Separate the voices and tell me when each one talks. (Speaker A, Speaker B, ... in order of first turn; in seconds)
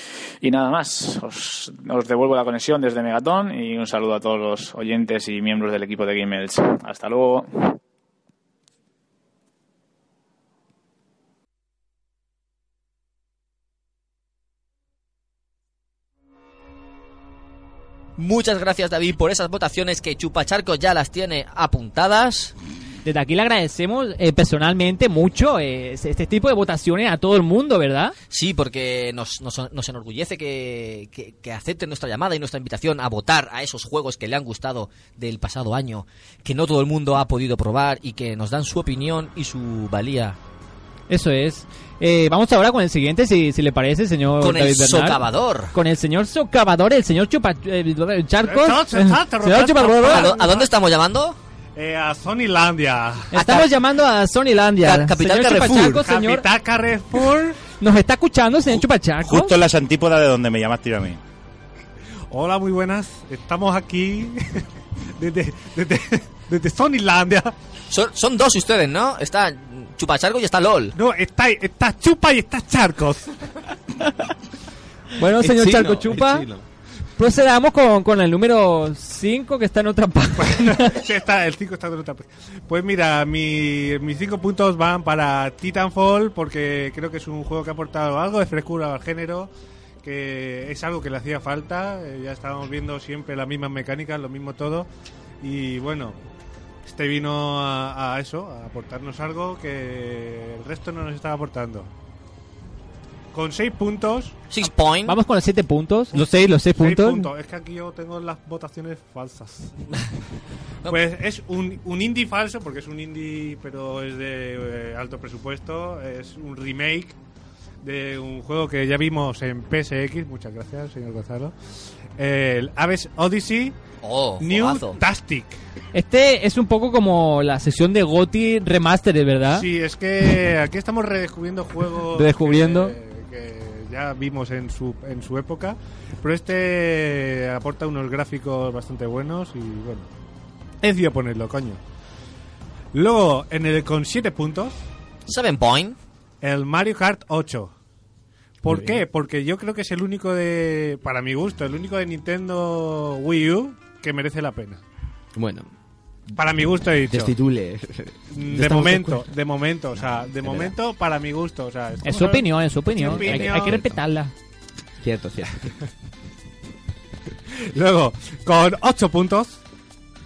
Speaker A: 0.4-7.8
Speaker B: 18.2-22.5, 28.3-40.4, 44.4-45.7, 50.0-51.4, 53.3-53.7, 54.8-56.0, 67.9-70.9, 104.5-105.2, 124.0-125.0, 145.2-146.0
Speaker C: 23.0-28.1, 41.1-50.3, 53.3-56.4, 57.8-59.5, 75.2-76.5, 77.2-80.9, 105.0-107.3, 125.9-129.6, 132.1-132.9, 162.0-164.3
Speaker D: 48.4-50.7, 51.8-53.3, 56.0-57.7, 62.3-64.6, 65.2-67.5, 70.9-73.3, 80.4-89.5, 90.0-94.9, 95.4-96.2, 96.8-101.9, 103.3-104.4, 106.1-109.8, 110.8-117.2, 117.8-121.5, 122.2-123.7, 124.4-125.6, 129.5-140.1, 140.8-141.8, 142.9-144.8, 146.4-147.7, 148.6-154.8, 156.3-157.3, 158.3-163.9, 167.7-169.6
Speaker E: 59.2-61.2
Speaker F: 75.4-76.6, 148.7-149.0, 155.3-155.7, 157.0-159.3, 160.1-160.7, 165.0-165.7